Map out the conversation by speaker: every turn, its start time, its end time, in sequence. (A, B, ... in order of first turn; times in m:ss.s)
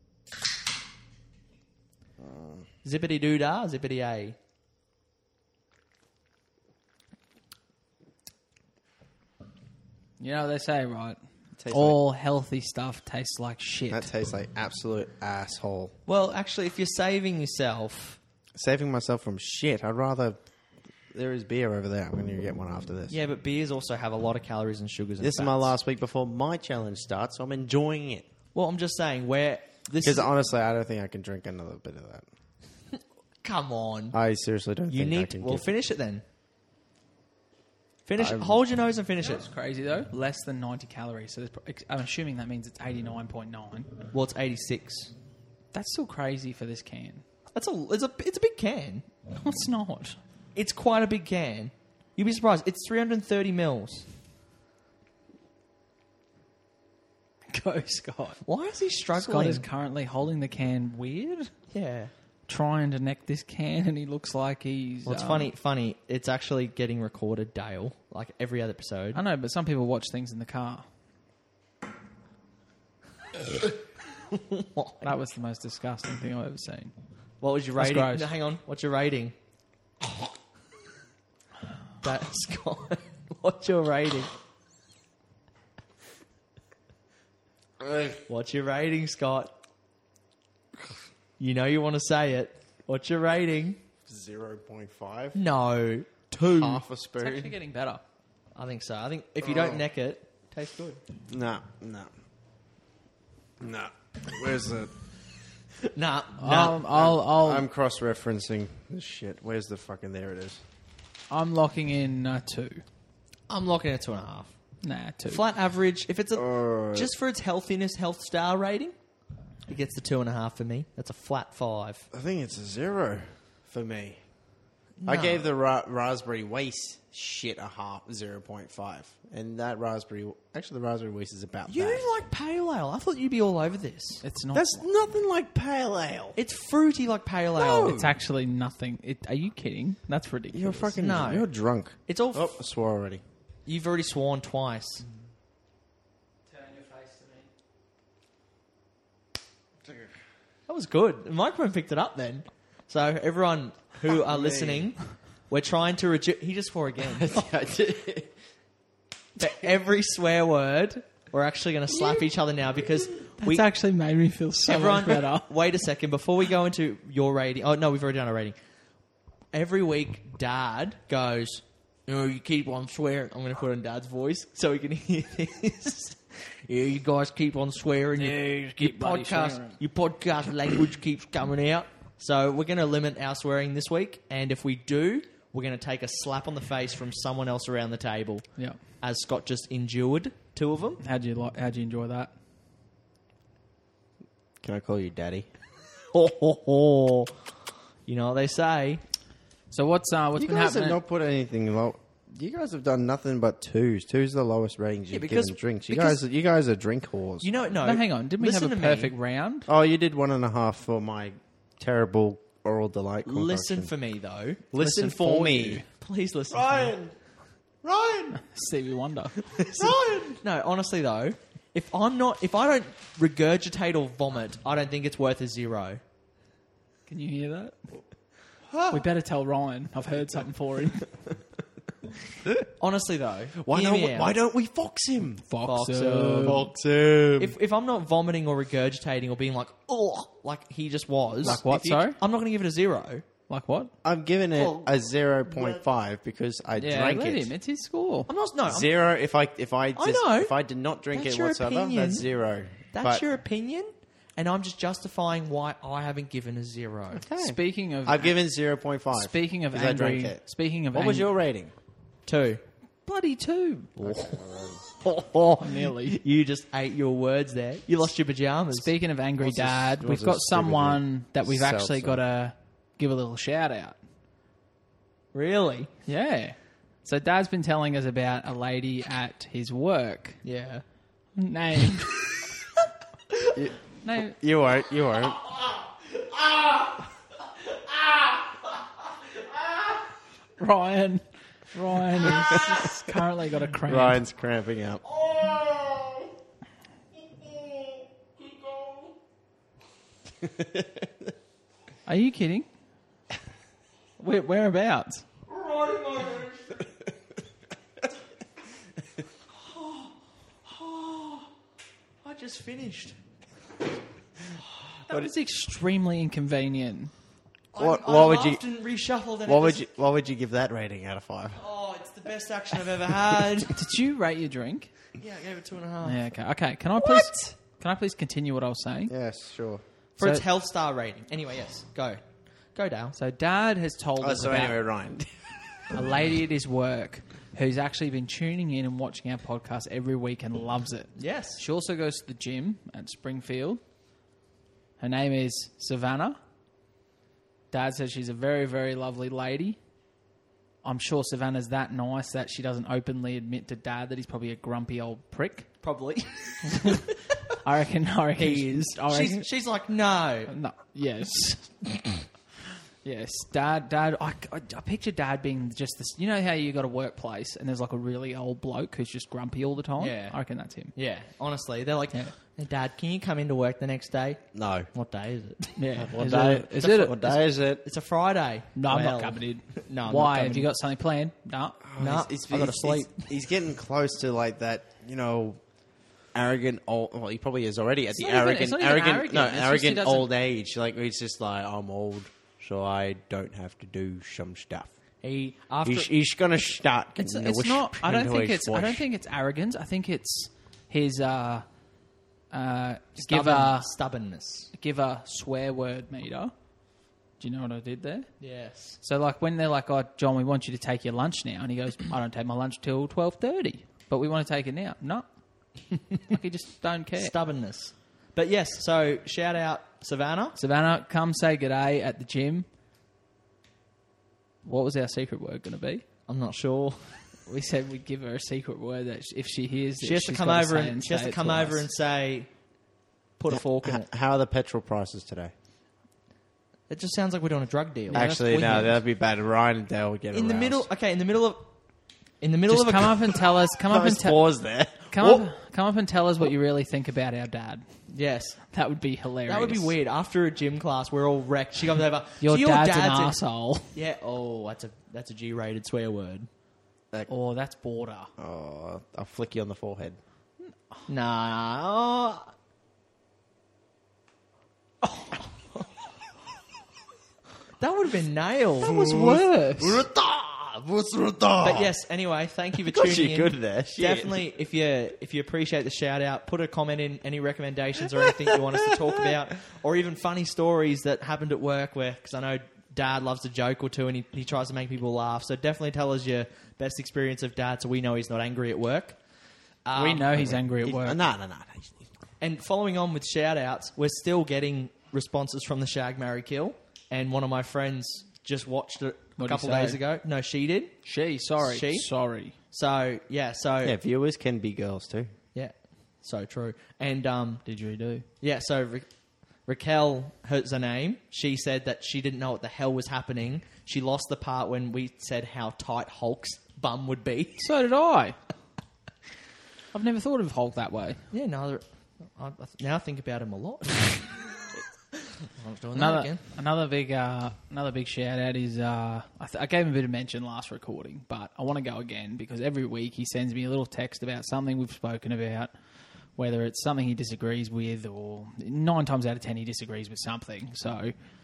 0:02.8-0:04.4 A
0:10.2-0:14.1 B
0:11.6-0:12.0 C
0:13.9-0:15.9 C
0:16.0-0:18.2 A
0:18.6-0:20.4 C
0:21.1-0:23.2 C
0:23.1-0:25.7 A
0:25.2-0:28.2 C
0:28.5-0:30.3 A
0:30.0-0:32.2 C
0:33.4-0:34.2 A
0:34.1-0:35.7 C
0:34.9-0:36.2 A
0:38.0-0:39.4 A
0:38.2-0:38.6 C
0:39.2-0:43.9 B
0:44.1-0:45.1 A
0:45.7-0:47.2 B
0:47.5-0:49.0 A
0:49.3-0:50.2 B
0:50.5-0:54.1 A
0:57.5-0:58.4 B
0:58.4-0:59.6 A
0:59.2-1:01.5 B
1:01.7-1:02.1 A
1:02.5-1:05.5 B
1:05.0-1:09.2 A
1:09.1-1:10.8 B
1:14.3-1:15.1 A
1:15.0-1:16.9 B
1:17.4-1:19.3 A
1:17.8-1:18.3 B
1:22.0-1:24.3 A
1:27.8-1:28.2 C
1:28.3-1:29.5 A
1:31.4-1:33.8 A
1:34.0-1:35.4 C
1:35.3-1:36.8 A
1:36.5-1:37.5 C
1:37.2-1:38.0 B
1:38.5-1:41.0 A
1:39.4-1:39.8 C
1:41.3-1:42.1 C
1:43.6-1:44.9 C
1:45.9-1:46.8 A
1:46.4-1:47.6 B
1:46.8-1:50.6 C
1:51.3-1:52.8 B
1:53.5-1:54.5 A
1:54.8-1:55.4 B
1:55.2-1:58.9 A
1:56.3-1:57.1 C
1:59.7-2:02.0 A
2:02.1-2:04.2 C
2:05.0-2:05.5 A
2:05.1-2:12.1 C
2:11.7-2:14.2 A
2:14.2-2:14.9 B
2:14.5-2:16.4 C
2:16.4-2:18.1 A
2:17.6-2:18.1 C
2:17.8-2:21.0 B
2:20.5-2:23.2 C
2:21.0-2:21.5 A
2:22.1-2:22.6 A
2:23.6-2:25.0 A
2:26.5-2:27.5 B
2:30.7-2:37.3 A
2:34.0-2:34.9 C
2:37.0-2:38.3 C
2:39.4-2:43.6 A
2:43.4-2:45.5 B
2:44.6-2:48.5 A
2:49.5-3:08.4 A
2:58.2-2:59.8 B
3:09.0-3:11.0 A
3:11.0-3:12.3 B
3:14.6-3:15.5 C
3:16.1-3:17.3 A
3:18.0-3:19.0 A
3:19.7-3:21.0 B
3:20.4-3:27.5 C
3:25.1-3:26.2 A
3:27.4-3:29.1 A
3:27.8-3:29.7 B
3:29.7-3:33.9 C
3:33.2-3:34.7 A
3:34.7-3:35.8 C
3:34.8-3:35.8 B
3:36.0-3:37.0 A
3:36.5-3:37.1 C
3:37.8-3:38.4 C
3:38.3-3:39.6 B
3:39.6-3:46.0 A
3:47.1-3:47.8 B
3:48.9-3:51.2 B
3:52.8-3:54.3 A
3:53.6-3:55.4 C
3:55.4-3:56.6 B
3:55.6-3:56.7 A
3:56.4-3:57.6 C
3:57.4-4:03.2 A
4:01.4-4:02.2 B
4:01.4-4:02.0 C
4:03.5-4:03.9 B
4:04.0-4:07.5 C
4:04.6-4:04.9 A
4:05.5-4:05.8 A
4:06.8-4:08.3 B
4:08.3-4:09.0 A
4:08.7-4:13.2 C
4:10.0-4:10.5 A
4:11.1-4:12.3 A
4:12.9-4:17.2 A
4:17.1-4:21.7 C
4:17.3-4:18.4 B
4:19.1-4:21.3 B
4:22.2-4:22.6 A
4:23.0-4:24.0 B
4:24.0-4:24.9 C
4:25.3-4:26.2 B
4:25.6-4:28.9 A
4:28.7-4:34.0 B
4:29.4-4:32.2 C
4:35.3-4:35.9 A
4:36.0-4:40.4 B
4:40.4-4:40.8 A
4:41.4-4:42.2 B
4:43.6-4:45.4 C
4:44.0-4:44.4 B
4:46.3-4:46.8 A
4:47.9-4:48.3 A
4:50.6-4:54.2 B
4:53.9-4:55.0 C
4:55.1-4:56.2 A
4:57.4-4:59.1 A
5:00.4-5:01.1 C
5:02.0-5:02.7 B
5:04.2-5:05.2 B
5:05.5-5:06.9 A
5:09.6-5:10.1 A
5:10.6-5:11.5 A
5:12.2-5:13.2 A
5:15.1-5:17.1 B
5:17.7-5:19.8 A
5:17.8-5:18.6 C
5:19.4-5:21.6 C
5:21.6-5:23.7 A
5:23.7-5:24.9 B
5:25.2-5:26.3 A
5:26.0-5:29.1 B
5:27.0-5:27.3 A
5:29.1-5:29.8 C
5:30.2-5:32.2 A
5:32.7-5:33.1 A
5:33.1-5:34.8 B
5:34.2-5:35.4 C
5:35.9-5:43.8 B
5:41.2-5:41.6 A
5:45.0-5:46.4 B
5:47.7-5:49.8 B
5:50.8-5:55.7 B
5:55.8-5:57.4 A
5:57.6-5:59.5 B
5:58.3-6:00.5 A
6:00.5-6:02.0 B
6:03.0-6:10.9 B
6:10.0-6:15.8 A
6:14.5-6:14.9 C
6:15.8-6:17.4 B
6:16.0-6:17.8 C
6:17.0-6:20.7 A
6:18.7-6:21.8 B
6:21.8-6:25.6 C
6:22.0-6:23.4 A
6:26.3-6:34.9 C
6:28.1-6:30.3 B
6:35.2-6:36.1 A
6:35.8-6:39.0 C
6:37.2-6:41.6 B
6:42.5-6:43.9 B
6:43.2-6:44.7 A
6:44.7-6:46.5 B
6:47.4-6:48.3 B
6:48.4-6:49.0 A
6:49.0-6:55.3 B
6:56.2-6:57.3 B
6:57.2-7:00.6 A
7:00.5-7:02.6 B
7:04.6-7:06.0 B
7:06.3-7:07.2 A
7:07.4-7:11.9 B
7:10.0-7:12.5 A
7:13.4-7:14.1 A
7:13.5-7:15.5 C
7:16.9-7:18.3 A
7:18.1-7:19.0 B
7:18.1-7:20.9 C
7:20.3-7:21.7 A
7:22.4-7:23.4 A
7:22.7-7:24.5 B
7:23.9-7:25.5 C
7:25.1-7:27.8 B
7:28.1-7:28.6 A
7:28.7-7:30.0 B
7:29.4-7:33.4 A
7:32.4-7:33.9 B
7:33.9-7:36.5 A
7:37.3-7:38.3 B
7:38.4-7:40.2 C
7:41.1-7:42.5 A
7:47.8-7:49.0 A
7:48.8-7:51.9 C
7:48.8-7:50.0 B
7:51.6-8:09.2 A
7:52.8-7:54.4 C
7:58.2-7:59.3 C
8:09.8-8:10.4 A
8:09.9-8:11.2 B
8:10.3-8:12.0 C
8:12.4-8:21.0 A
8:19.4-8:20.0 B
8:21.0-8:22.5 B
8:21.6-8:22.1 A
8:22.7-8:24.0 A
8:23.8-8:25.3 C
8:25.5-8:27.6 A
8:27.6-8:28.2 B
8:28.4-8:29.1 A
8:29.7-8:37.7 A
8:37.6-8:38.4 B
8:39.9-8:41.2 B
8:41.3-8:44.4 A
8:45.2-8:46.4 A
8:45.9-8:55.7 B
8:56.4-9:01.1 B